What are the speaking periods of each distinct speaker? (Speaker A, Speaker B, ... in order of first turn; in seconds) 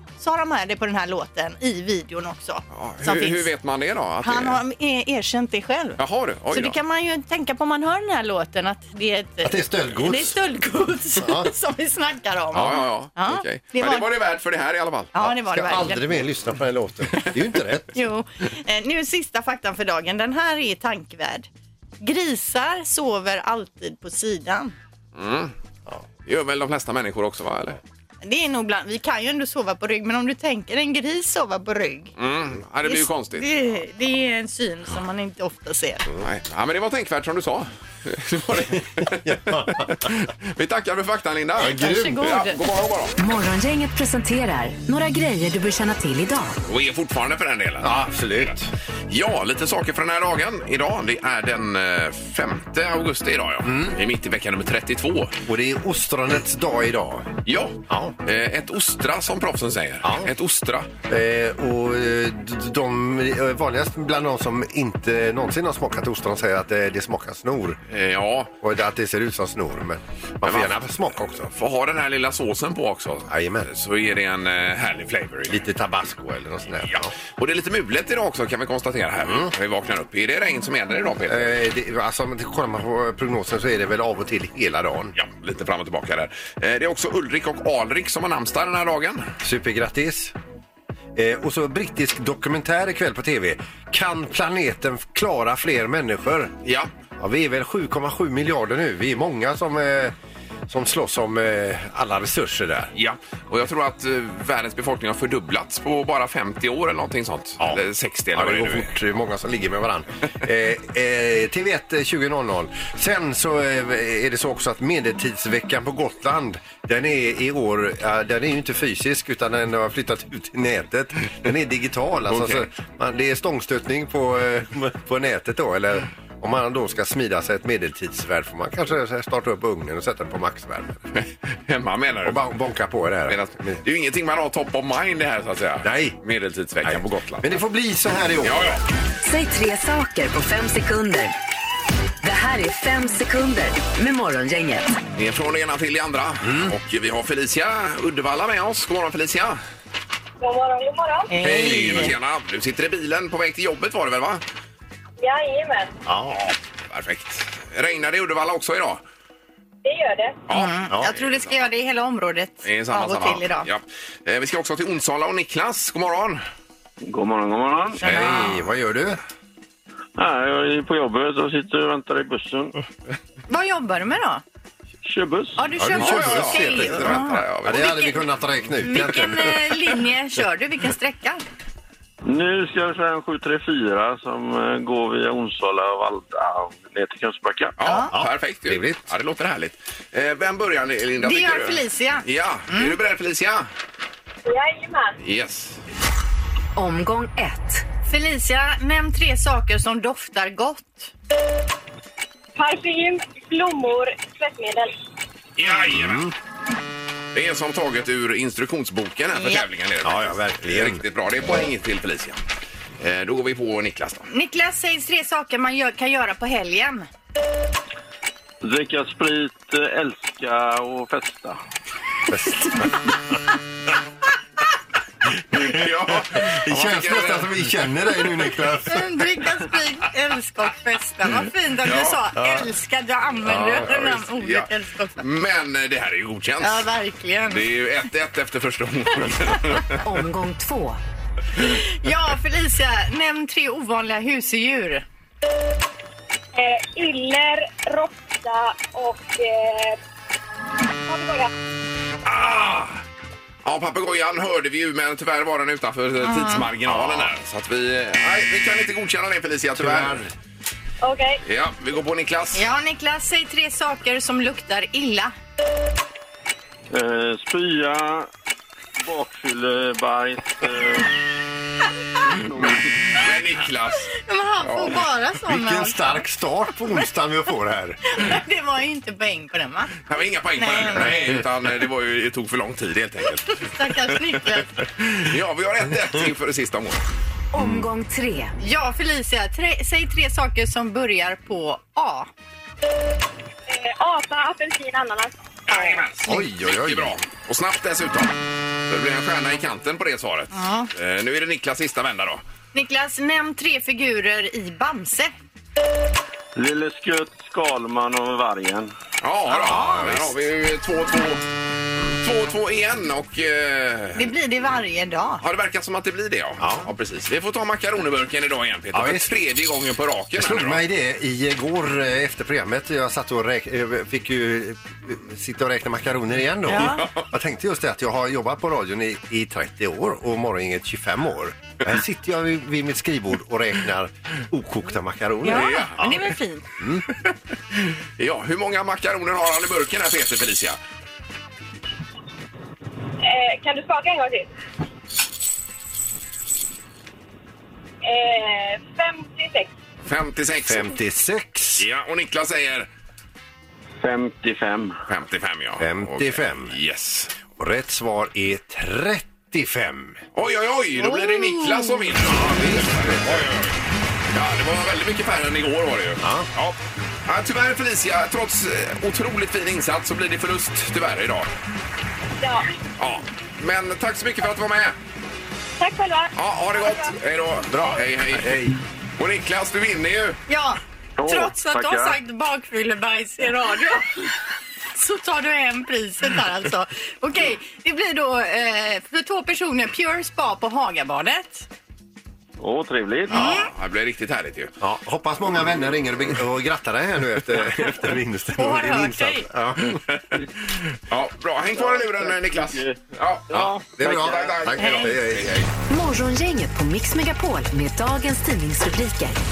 Speaker A: 0.2-3.5, 4.2-6.0, 6.5-14.1, 15.1-16.1, 17.9-21.5, 22.0-24.8, 28.2-32.1, 32.9-36.0, 41.6-42.6, 151.3-152.2, 160.5-163.7, 168.0-168.5, 173.5-174.4, 175.6-178.2, 178.8-181.4, 187.8-188.1, 191.2-192.9, 198.1-201.1, 209.3-209.6, 214.3-217.1, 228.9-235.2, 236.6-237.6, 241.6-245.1, 256.2-256.7, 262.5-265.3, 274.1-276.2, 278.1-280.0, 280.6-281.1, 283.5-284.8, 288.6-292.3, 300.5-300.9, 302.7-305.3, 309.6-309.9, 314.2-315.4, 326.7-327.1, 335.4-336.7, 361.0-362.1, 380.5-384.1, 384.9-391.7, 393.3-393.7, 398.6-399.5
Speaker B: 2.7-4.6, 6.0-6.8, 12.5-15.2, 25.2-25.6, 26.3-27.8, 32.2-33.5, 36.2-43.2, 46.6-48.5, 49.1-55.4, 57.5-60.9, 67.9-68.5, 70.4-70.7, 71.3-75.6, 76.9-81.6, 85.2-89.3, 96.6-96.9, 103.0-108.9, 122.3-122.6, 131.2-132.4, 133.3-137.5, 138.4-138.8, 145.2-149.6, 151.4-154.4, 156.4-159.0, 160.5-161.6, 162.6-166.4, 168.0-168.5, 176.0-178.1, 187.8-193.7, 195.2-195.8, 205.6-206.3, 207.3-212.4, 213.0-214.3, 225.5-227.6, 231.8-232.3, 233.5-236.8, 237.5-240.0, 252.2-253.0, 253.6-260.2, 261.4-262.7, 272.6-274.1, 274.6-275.0, 280.1-284.1, 285.1-287.0, 295.7-298.4, 298.9-302.4, 309.2-311.4, 312.2-314.3, 315.4-320.8, 326.8-327.2, 335.4-336.1, 337.7-340.8, 350.1-350.9, 351.8-352.9, 355.1-357.3, 360.4-363.8, 364.3-371.5, 373.0-375.0, 376.4-378.6, 379.2-380.4, 393.3-394.7, 401.1-405.7
Speaker C: 9.4-10.4, 11.2-11.5, 15.2-17.9, 39.0-40.0, 41.6-42.3, 47.8-48.7, 53.6-54.0, 55.5-58.2, 60.0-60.3, 61.1-67.8, 68.6-71.5, 73.3-73.8, 75.5-77.1, 79.2-79.5, 81.3-85.2, 89.4-90.4, 91.2-96.5, 97.2-100.2, 100.7-102.9, 108.3-131.1, 132.2-133.8, 135.8-136.2, 136.8-138.8, 146.4-146.7, 151.4-152.1, 156.1-156.4, 168.0-169.2, 175.8-179.6, 188.1-189.0, 205.9-206.3, 210.0-211.0, 222.3-222.9, 225.5-229.2, 259.8-260.3, 275.5-278.2, 287.6-287.9, 296.2-297.2, 309.6-310.3, 316.6-316.9, 318.9-319.3, 320.4-336.2, 336.8-337.1, 350.6-351.9, 355.8-356.8, 357.6-360.2, 362.2-363.5, 366.2-366.5, 377.7-378.8, 394.8-400.0, 404.0-405.6
Speaker D: 43.2-46.6, 139.2-141.3, 142.2-145.0, 196.8-197.8, 240.0-241.0, 287.5-288.6, 405.9-409.4
Speaker E: 150.4-151.3, 155.2-155.9, 159.8-160.4, 194.5-195.2, 202.6-204.9, 246.6-250.0, 251.1-251.5, 261.0-261.4, 293.7-296.1, 343.2-344.5, 348.0-349.7, 372.4-372.7, 375.8-377.1
Speaker F: 167.0-168.1, 170.2-172.8, 175.0-175.6, 182.2-187.8, 218.6-221.6, 266.9-268.3, 269.0-271.1, 272.2-272.9, 306.6-308.9, 354.0-355.0, 381.2-382.2, 392.6-393.5, 401.8-403.9